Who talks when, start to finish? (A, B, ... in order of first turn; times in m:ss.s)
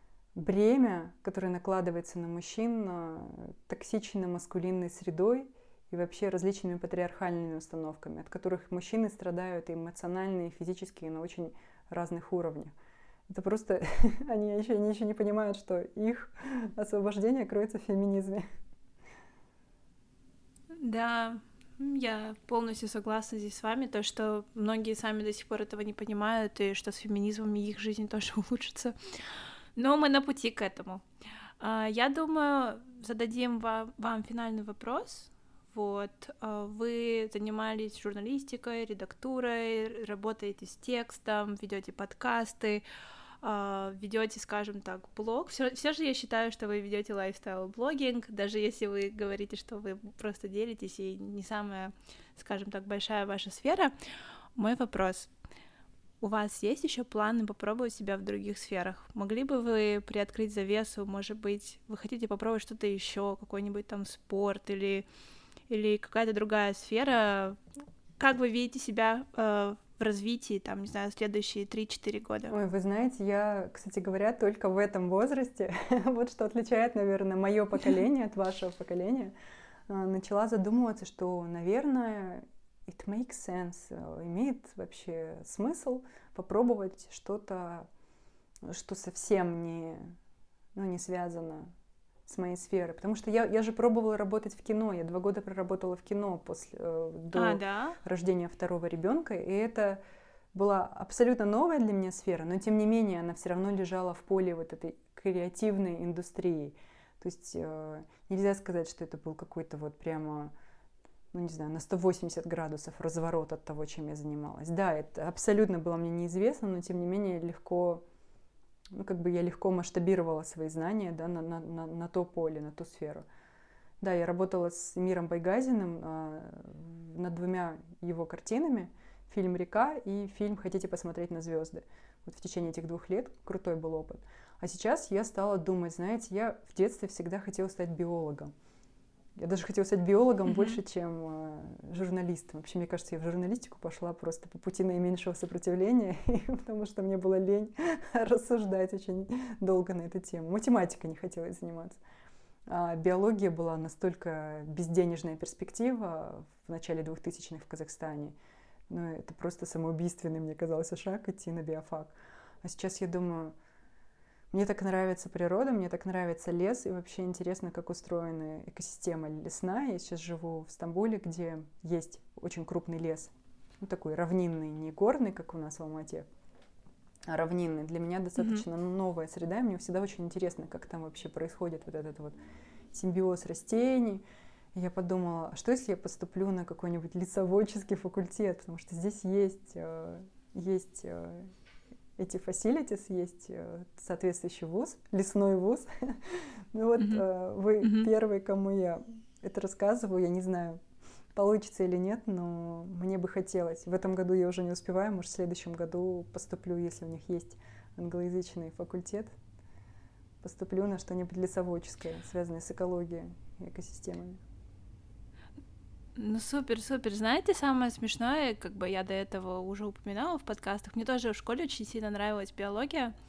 0:00.4-0:12.7 A
0:13.3-0:18.4 A
0:20.7-0:31.0 B
0:31.6-0:42.8 B
0:43.4-0:53.9 B
0:54.6-0:55.3 B
0:56.2-1:05.1 B
1:05.7-1:07.6 B
1:08.2-1:12.6 B
1:12.5-1:19.3 A
1:19.9-1:27.9 A
1:28.6-1:30.2 A
1:30.8-1:31.7 A
1:32.3-1:40.0 A
1:37.3-1:38.0 B
1:40.5-1:50.5 A
1:51.3-1:58.0 A
1:58.9-2:03.2 A
2:04.0-2:18.5 A
2:19.4-2:32.0 A
2:32.7-2:38.4 A
2:38.9-2:43.6 A
2:44.5-2:56.3 A
2:57.3-3:02.4 A
2:58.4-2:58.6 B
3:02.9-3:04.2 A
3:04.7-3:11.5 A
3:12.2-3:20.8 A
3:17.0-3:17.2 B
3:17.8-3:18.1 B
3:21.4-3:29.3 A
3:30.4-3:34.4 A
3:36.2-3:43.2 B